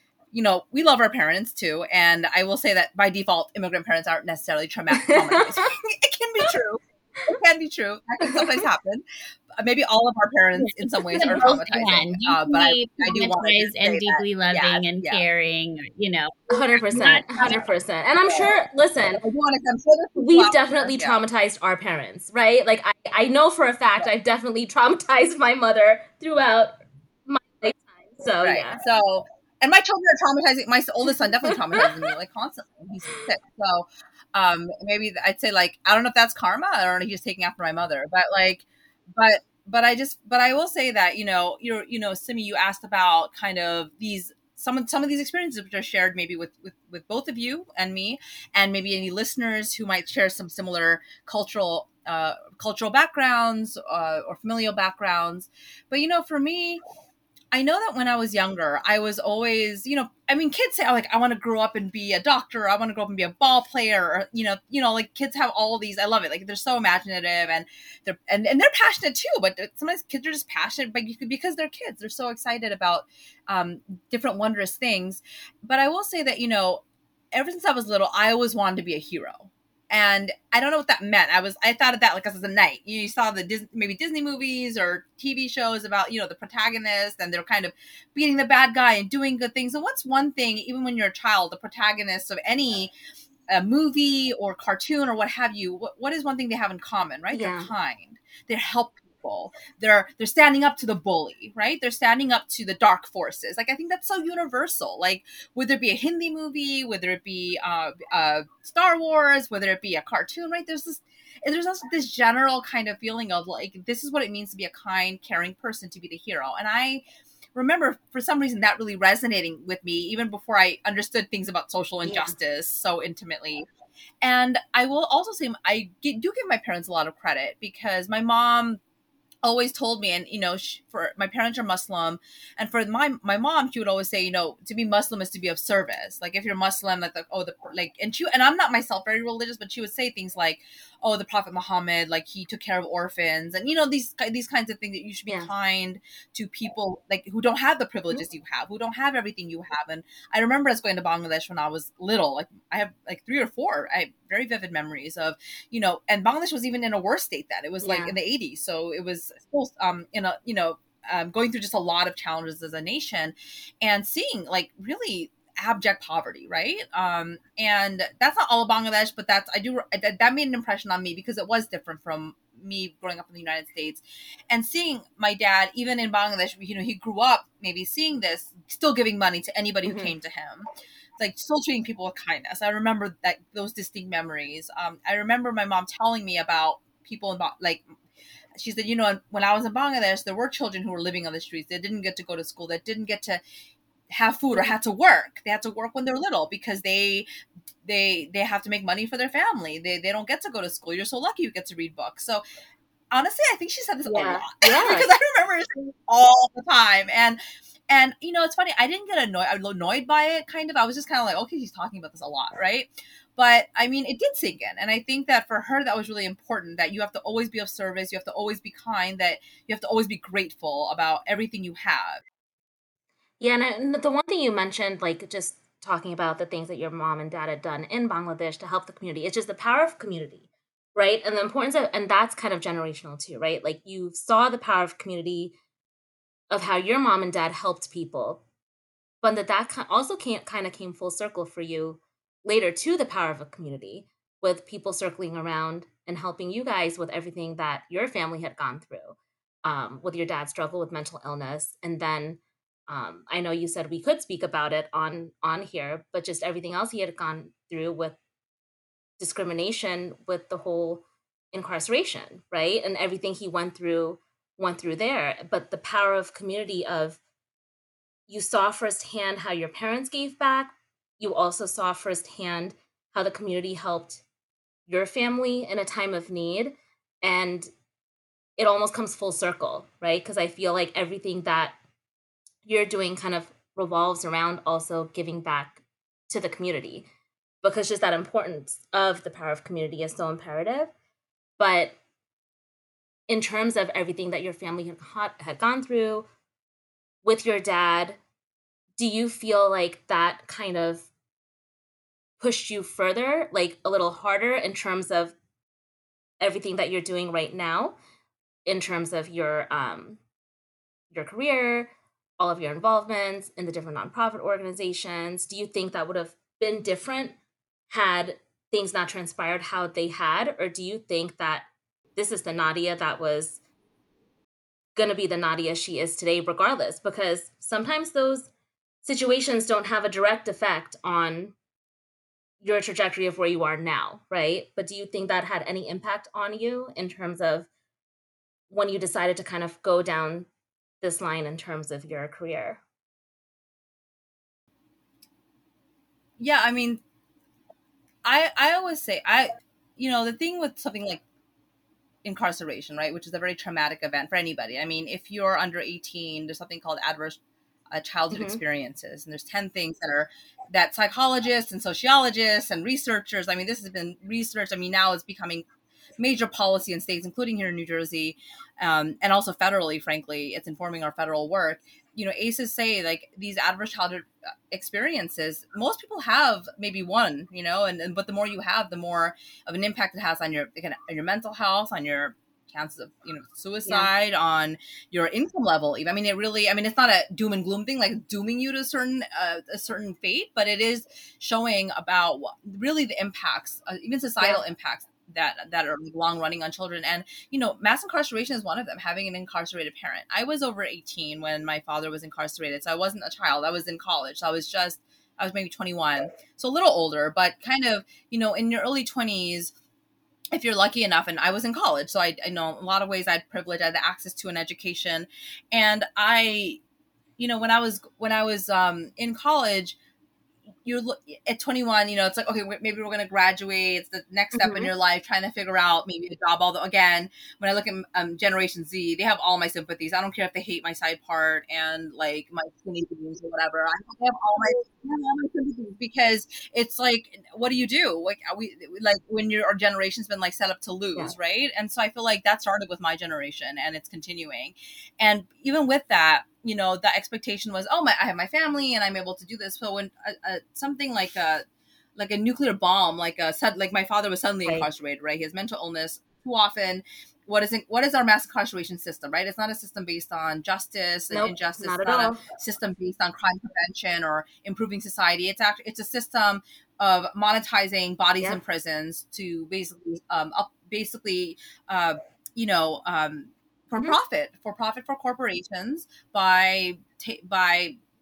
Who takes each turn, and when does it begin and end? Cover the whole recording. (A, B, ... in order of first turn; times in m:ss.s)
0:00.3-0:15.2 A
0:05.0-0:05.7 B
0:11.1-0:17.6 C
0:16.5-0:19.2 B
0:19.2-0:21.2 A
0:20.2-0:28.8 B
0:28.4-0:56.8 A
0:57.5-1:32.9 A
1:33.5-1:57.0 A
1:37.3-1:37.7 B
1:57.6-2:03.7 A
2:02.0-2:02.3 B
2:04.2-2:08.8 A
2:09.4-3:00.7 A
2:25.3-2:25.5 B
2:37.8-2:38.2 B
2:59.8-3:00.1 B
3:01.2-3:07.8 A
3:08.6-3:13.4 A
3:14.1-3:17.3 A
3:17.8-3:22.4 A
3:23.1-3:42.2 A
3:24.1-3:25.1 B
3:43.4-3:55.6 B
3:56.5-3:58.4 B
3:59.2-4:18.2 B
4:19.2-4:27.2 B
4:28.3-4:34.2 B
4:34.9-4:37.7 B
4:38.6-4:41.8 B
4:42.6-4:47.1 B
4:47.6-4:50.9 B
4:51.6-4:52.0 B
4:53.3-4:56.3 B
4:57.2-4:58.2 B
4:59.0-5:01.1 B
5:02.4-5:05.4 B
5:06.4-5:08.0 B
5:08.7-5:10.2 B
5:11.1-5:17.4 B
5:17.9-5:23.6 B
5:25.0-5:28.5 B
5:29.0-5:31.6 B
5:32.6-5:37.7 B
5:38.7-5:40.5 B
5:41.0-5:42.8 B
5:46.4-5:47.0 A
5:48.2-5:51.2 A
5:52.2-5:57.4 A
5:57.9-6:05.7 A
5:58.3-5:58.6 B
6:06.2-6:49.7 A
6:50.5-6:56.8 A
6:57.4-7:00.0 A
7:00.8-7:31.6 A
7:04.5-7:04.9 B
7:32.2-7:58.0 A
7:41.3-7:42.4 B